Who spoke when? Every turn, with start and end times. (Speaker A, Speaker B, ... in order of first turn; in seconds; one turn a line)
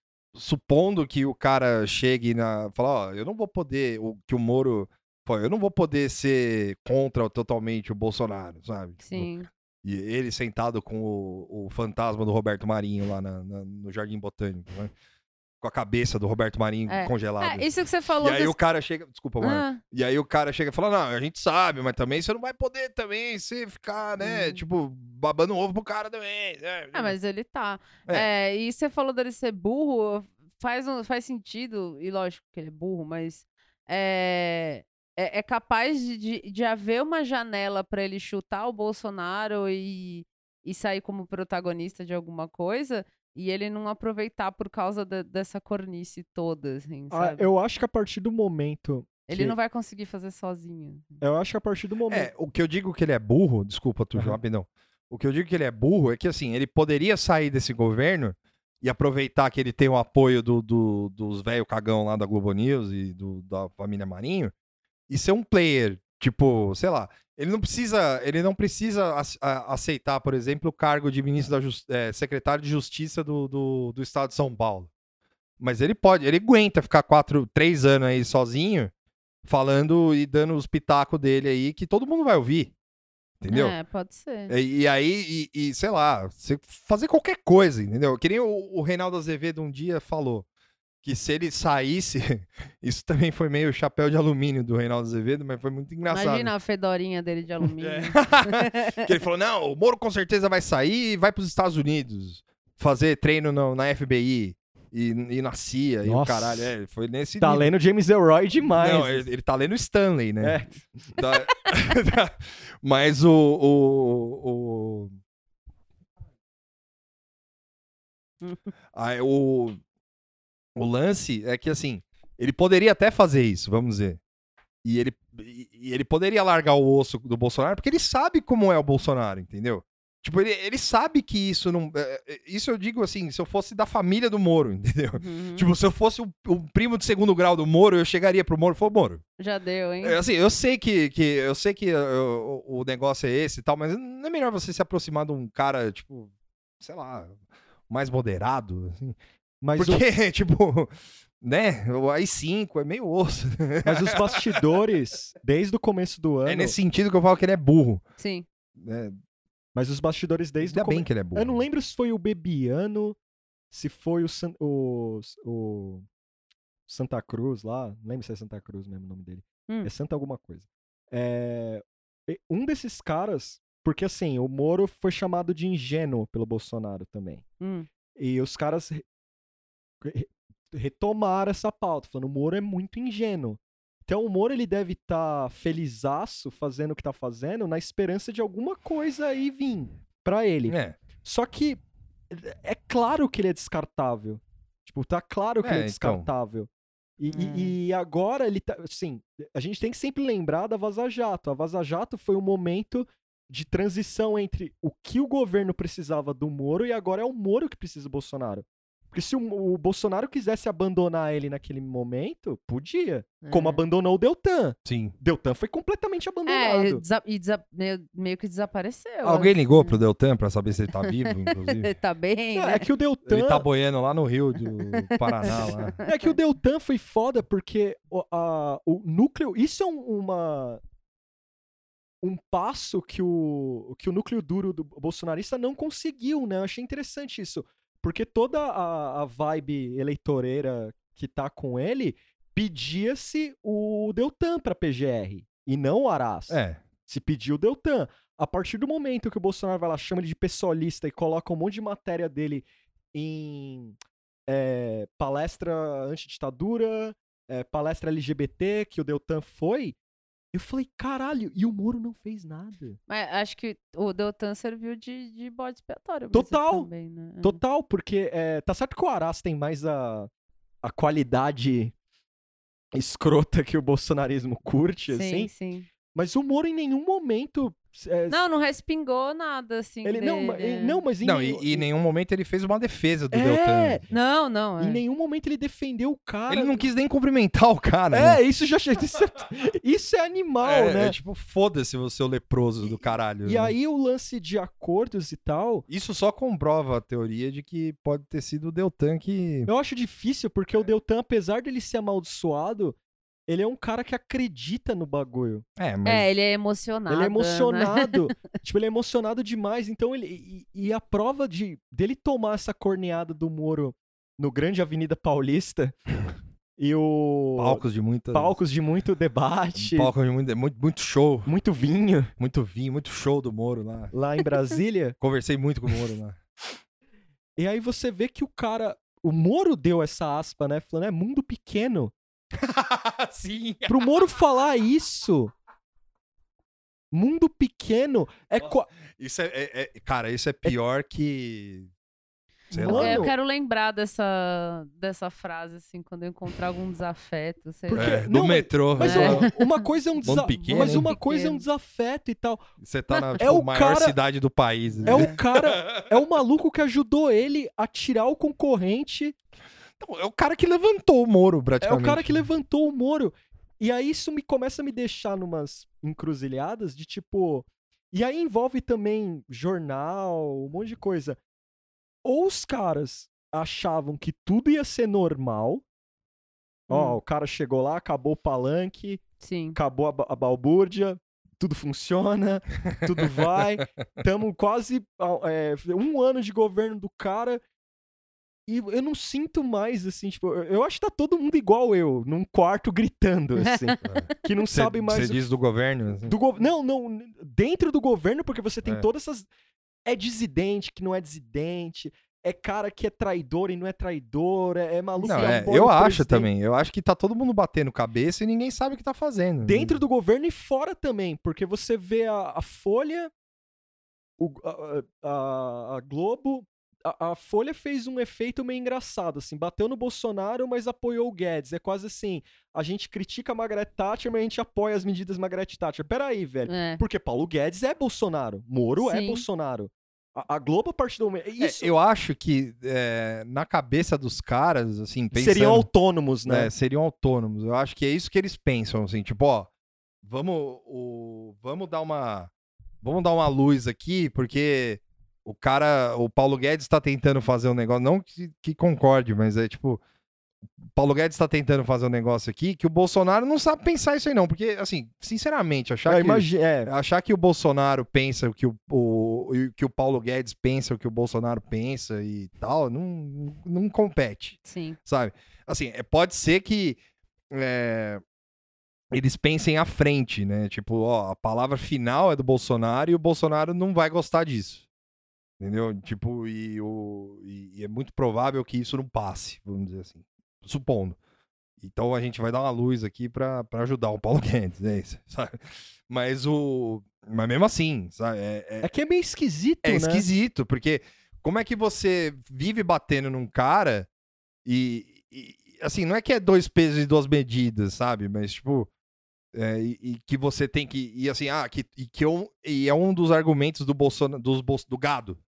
Speaker A: 0.3-9.3
Speaker B: 9.0-9.5
Speaker A: 9.8-14.9
Speaker A: 15.6-17.7
Speaker B: 16.9-18.6
Speaker A: 18.2-27.1
Speaker B: 19.4-19.8
Speaker B: 24.2-24.6
Speaker B: 26.9-47.5
Speaker C: 47.1-49.5
Speaker B: 49.3-51.2
Speaker C: 51.2-52.3
Speaker A: 52.1-64.5
Speaker A: 65.1-74.9
Speaker A: 75.6-78.9
Speaker A: 79.4-82.7
Speaker A: 83.4-83.8
Speaker B: 83.5-84.5
Speaker A: 84.5-90.5
Speaker A: 91.0-96.5
Speaker B: 96.1-99.1
Speaker A: 97.8-107.7
Speaker C: 106.0-106.7
Speaker C: 107.4-109.2
Speaker A: 108.8-110.6
Speaker C: 110.4-111.2
Speaker A: 111.2-115.1
Speaker B: 118.4-118.7
Speaker A: 118.9-119.8
Speaker A: 120.8-124.2
Speaker A: 124.8-139.2
Speaker B: 135.1-135.7
Speaker B: 139.4-140.2
Speaker A: 140.0-147.4
Speaker A: 147.9-149.2
Speaker C: 149.6-150.0
Speaker A: 149.8-154.6
Speaker C: 153.8-156.8
Speaker A: 156.4-158.0
Speaker B: 158.2-158.4
Speaker A: 158.8-159.2
Speaker C: 159.7-163.2
Speaker A: 160.6-161.6
Speaker C: 163.7-166.1
Speaker C: 166.9-177.4
Speaker B: 177.6-177.9
Speaker C: 178.2-179.0
Speaker C: 180.0-217.0
Speaker A: 190.7-191.0
Speaker A: 195.6-196.3
Speaker B: 197.3-197.8
Speaker B: 213.4-213.8
Speaker A: 214.8-215.1
Speaker B: 216.4-220.0
Speaker A: 219.2-221.9
Speaker B: 221.0-222.9
Speaker C: 222.5-223.7
Speaker A: 223.2-226.0
Speaker B: 224.7-226.3
Speaker C: 225.5-230.8
Speaker C: 232.2-253.9
Speaker A: 246.5-246.8
Speaker C: 254.5-259.9
Speaker C: 260.5-263.0
Speaker B: 263.1-267.6
Speaker C: 266.3-266.9
Speaker C: 267.4-270.3
Speaker C: 270.8-271.9
Speaker C: 272.9-275.5
Speaker B: 275.1-275.9
Speaker C: 276.1-278.4
Speaker B: 278.3-281.0
Speaker C: 280.0-281.9
Speaker A: 281.2-284.1
Speaker C: 283.3-284.0
Speaker B: 284.1-285.0
Speaker C: 284.8-286.8
Speaker A: 286.5-288.4
Speaker C: 288.1-291.2
Speaker A: 290.6-293.7
Speaker C: 293.4-295.9
Speaker A: 295.9-299.7
Speaker C: 299.7-305.6
Speaker A: 305.8-306.3
Speaker B: 306.0-308.3
Speaker C: 307.1-315.9
Speaker C: 316.8-320.1
Speaker A: 317.6-318.6
Speaker A: 319.8-321.5
Speaker C: 321.4-322.3
Speaker A: 322.4-324.1
Speaker C: 324.1-325.2
Speaker A: 325.2-326.4
Speaker C: 327.6-332.1
Speaker A: 332.5-334.3
Speaker C: 333.9-335.5
Speaker C: 337.1-338.9
Speaker A: 338.6-341.9
Speaker A: 342.7-343.3
Speaker C: 342.7-343.3
Speaker B: 342.8-348.1
Speaker C: 347.9-352.6
Speaker A: 347.9-349.5
Speaker B: 349.0-349.8
Speaker A: 350.2-351.1
Speaker B: 350.5-351.6
Speaker A: 352.8-356.1
Speaker B: 353.1-353.4
Speaker C: 353.4-354.1
Speaker B: 354.9-355.4
Speaker C: 355.1-359.3
Speaker A: 360.0-362.4
Speaker C: 361.8-371.4
Speaker C: 372.2-375.8
Speaker C: 376.9-387.6
Speaker B: 376.9-377.2
Speaker B: 379.4-379.8
Speaker C: 388.7-395.4
Speaker B: 393.6-394.0
Speaker A: 394.0-396.4
Speaker C: 396.2-399.5
Speaker C: 400.0-406.5
Speaker B: 405.2-405.6
Speaker A: 405.2-410.0
Speaker C: 409.6-413.3
Speaker C: 414.4-431.9
Speaker B: 426.6-427.0
Speaker B: 429.0-429.4
Speaker A: 431.6-435.9
Speaker C: 435.3-436.7
Speaker A: 436.4-439.7
Speaker A: 440.2-442.5
Speaker A: 443.0-450.0
Speaker A: 450.9-467.0
Speaker C: 456.0-456.9
Speaker B: 464.6-465.0
Speaker A: 467.5-468.2
Speaker A: 469.1-474.9
Speaker A: 475.6-481.2
Speaker A: 481.8-488.9
Speaker C: 488.8-490.2
Speaker A: 489.8-494.1
Speaker A: 494.6-498.9
Speaker A: 499.5-505.4